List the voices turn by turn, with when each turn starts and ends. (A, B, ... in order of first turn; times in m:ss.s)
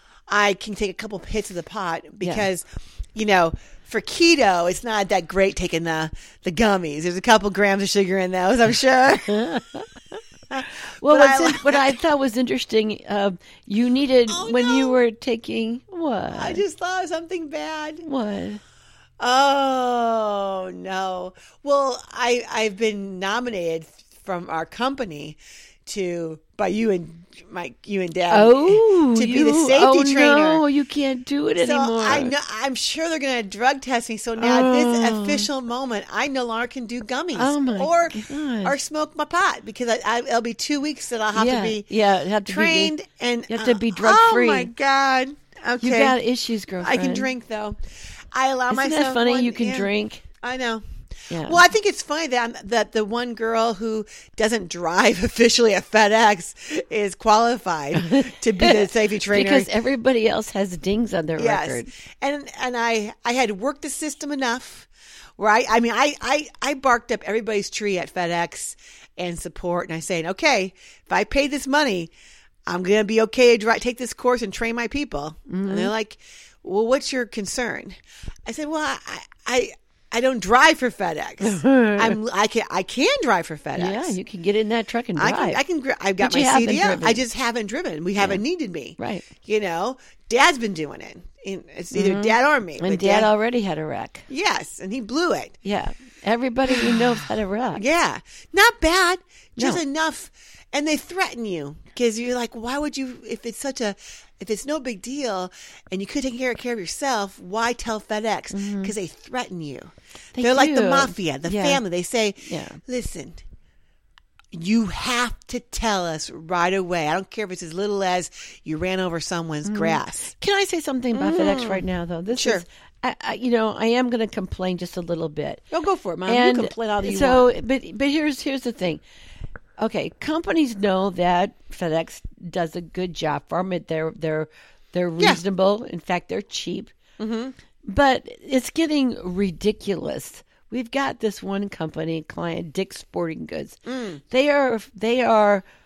0:00.3-0:09.4 A
0:02.2-0:02.4 B
0:09.3-0:09.9 B
0:10.5-0:12.0 A
0:10.6-0:16.6 B
0:14.3-0:15.0 A
0:16.3-0:18.0 A
0:18.0-0:18.6 B
0:19.2-0:30.6 A
0:28.3-0:32.3 B
0:31.6-0:41.8 A
0:34.4-0:35.5 B
0:37.3-0:38.8 B
0:41.3-0:42.9 B
0:42.4-0:46.2 A
0:43.5-0:44.7 B
0:45.8-0:47.3 B
0:46.8-0:47.8 A
0:48.3-0:50.8 A
0:48.7-0:50.2 B
0:51.3-0:51.6 B
0:51.4-0:59.7 A
0:57.9-1:01.9 B
1:01.4-1:12.1 A
1:12.7-1:24.2 A
1:15.5-1:15.9 B
1:21.4-1:22.2 B
1:23.8-1:25.6 B
1:25.2-1:33.3 A
1:26.2-1:27.2 B
1:29.0-1:29.3 B
1:31.9-1:34.2 B
1:34.3-1:35.6 A
1:35.6-1:37.8 B
1:36.7-1:53.4 A
1:48.5-1:48.9 B
1:50.3-1:51.8 B
1:52.4-1:52.8 B
1:54.5-2:00.3 A
1:59.6-2:05.6 B
2:01.1-2:01.8 A
2:02.3-2:02.6 A
2:05.7-2:07.5 A
2:06.2-2:09.0 B
2:09.8-2:16.9 B
2:17.2-2:17.5 A
2:17.8-2:23.8 B
2:23.8-2:24.2 A
2:24.3-2:25.6 B